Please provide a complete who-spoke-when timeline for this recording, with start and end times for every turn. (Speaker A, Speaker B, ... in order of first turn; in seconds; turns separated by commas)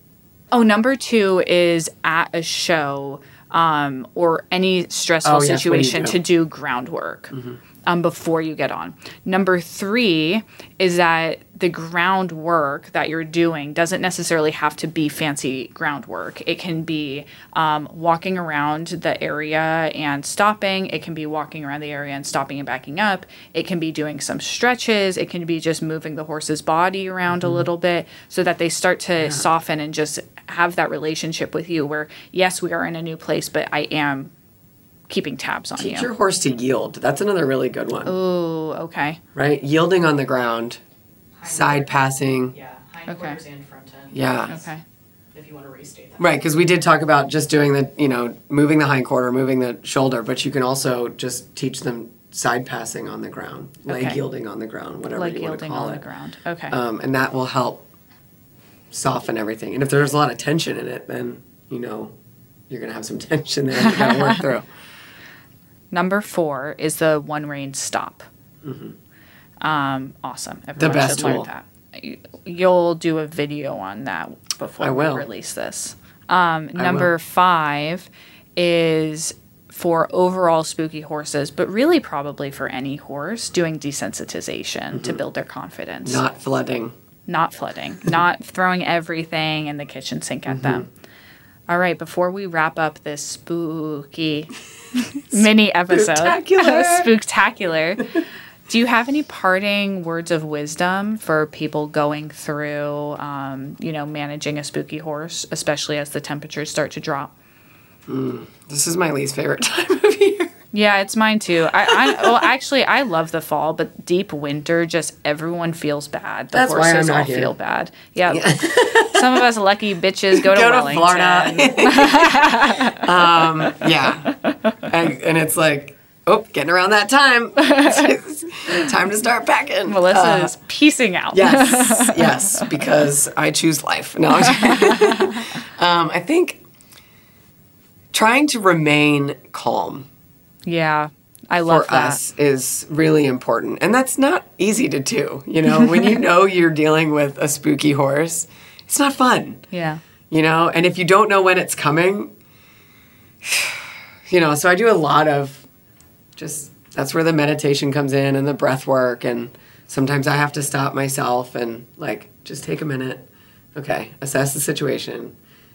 Speaker A: 0.5-7.3, Speaker B: 5.2-6.2, Speaker B: 7.3-7.6, Speaker A: 7.9-34.3, Speaker B: 27.3-27.6, Speaker A: 35.1-36.1, Speaker B: 35.8-38.1, Speaker A: 38.0-39.2, Speaker B: 39.3-40.8, Speaker C: 41.4-41.9, Speaker B: 41.5-42.5, Speaker C: 42.5-44.6, Speaker A: 43.1-43.4, Speaker B: 44.1-44.5, Speaker A: 44.5-44.8, Speaker C: 45.3-46.4, Speaker B: 46.2-56.0, Speaker A: 53.9-54.2, Speaker A: 55.1-56.8, Speaker B: 56.7-57.9, Speaker B: 58.9-62.1, Speaker B: 62.7-64.7, Speaker A: 63.8-64.4, Speaker A: 65.9-68.3, Speaker B: 68.6-69.0, Speaker A: 69.6-86.2, Speaker B: 70.8-71.5, Speaker B: 74.8-75.2, Speaker B: 76.8-77.1, Speaker B: 84.9-85.2, Speaker B: 86.0-86.9, Speaker A: 87.3-90.9, Speaker B: 90.5-90.8, Speaker A: 91.7-98.1, Speaker B: 95.3-97.1, Speaker A: 98.7-107.3, Speaker B: 108.1-110.5, Speaker A: 110.7-123.9, Speaker B: 111.9-112.2, Speaker B: 116.5-117.5, Speaker B: 118.3-119.4, Speaker B: 120.3-130.6, Speaker A: 127.6-128.2, Speaker A: 129.9-132.7, Speaker B: 131.3-136.6, Speaker A: 134.4-135.4, Speaker B: 138.1-140.1, Speaker A: 140.6-142.2, Speaker B: 141.6-149.6, Speaker A: 149.7-150.0, Speaker B: 150.3-152.3, Speaker B: 153.4-155.6, Speaker B: 156.4-165.3